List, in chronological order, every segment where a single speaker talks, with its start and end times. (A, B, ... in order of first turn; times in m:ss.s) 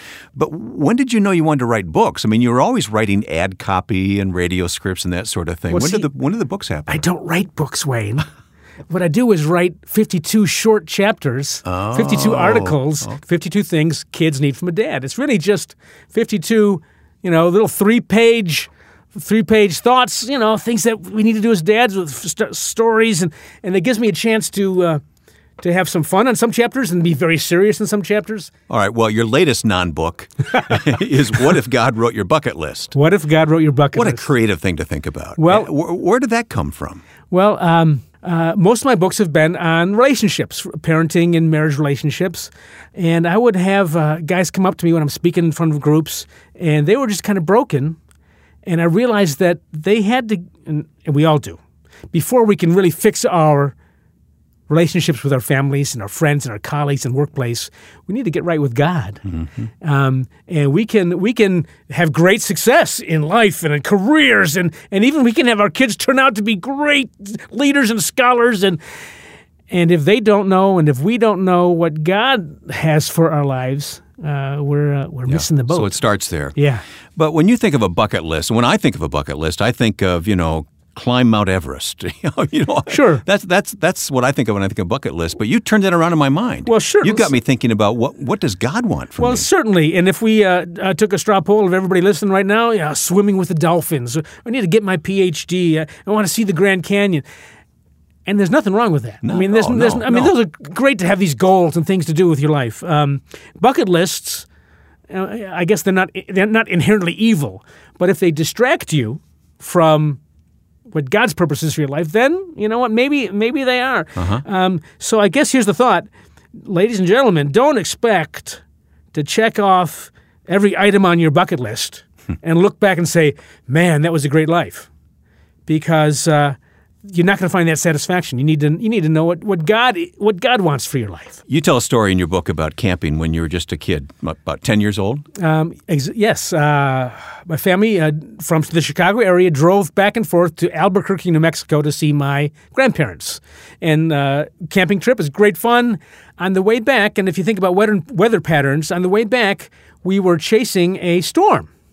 0:00.4-0:07.0 A
0:05.7-0:06.0 B
0:06.9-0:08.2 B
0:08.9-0:25.0 B
0:11.6-0:12.8 A
0:25.6-0:28.5 B
0:28.7-0:32.9 A
0:32.9-0:34.3 B
0:33.9-0:37.0 A
0:35.4-0:35.7 B
0:37.3-0:48.0 B
0:48.6-0:51.6 B
0:52.1-0:53.8 B
0:54.7-0:59.2 B
0:59.8-1:08.8 B
1:09.7-1:16.0 B
1:15.3-1:16.5 A
1:16.5-1:16.8 B
1:17.2-1:29.4 A
1:22.9-1:23.2 B
1:26.6-1:27.3 B
1:29.2-1:37.2 B
1:38.2-1:44.5 B
1:39.2-1:40.3 A
1:45.1-1:50.2 B
1:50.9-2:04.9 B
1:54.2-1:54.4 A
2:05.7-2:11.4 B
2:11.5-2:15.2 A
2:15.4-2:31.7 B